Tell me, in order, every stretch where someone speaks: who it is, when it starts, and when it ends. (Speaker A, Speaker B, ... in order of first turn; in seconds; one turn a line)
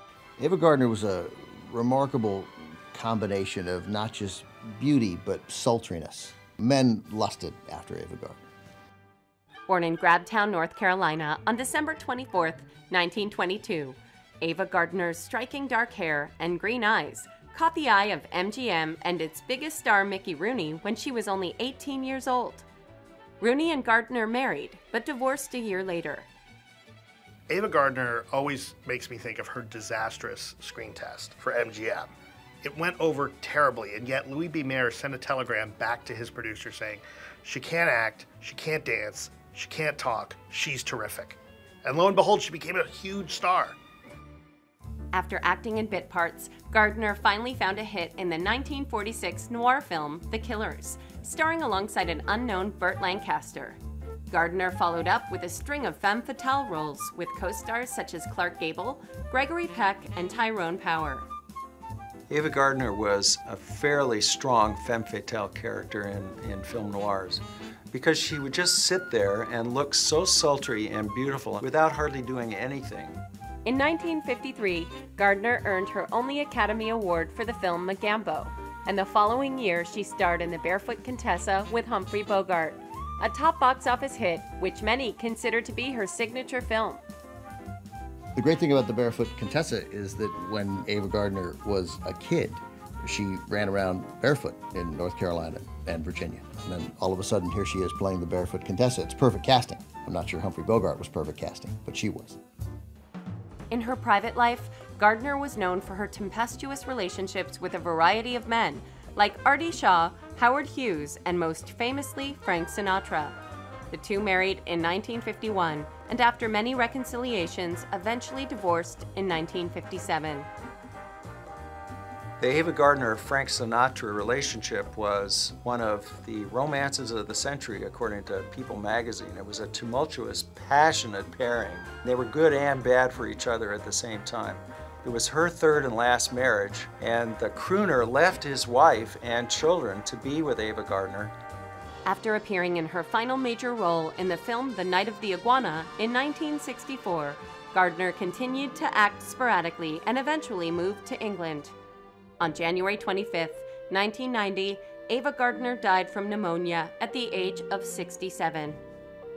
Speaker A: 0.4-8.4
Speaker B: 9.7-22.7
Speaker B: 23.4-26.3
Speaker C: 27.5-32.1
Speaker C: 32.6-43.8
Speaker B: 45.1-53.8
Speaker B: 54.3-61.3
Speaker D: 62.3-73.2
Speaker B: 73.7-87.0
Speaker A: 88.3-102.4
Speaker B: 103.7-113.4
Speaker B: 113.9-120.5
Speaker D: 122.4-141.3
Speaker B: 142.1-151.7
Speaker B: 152.4-158.8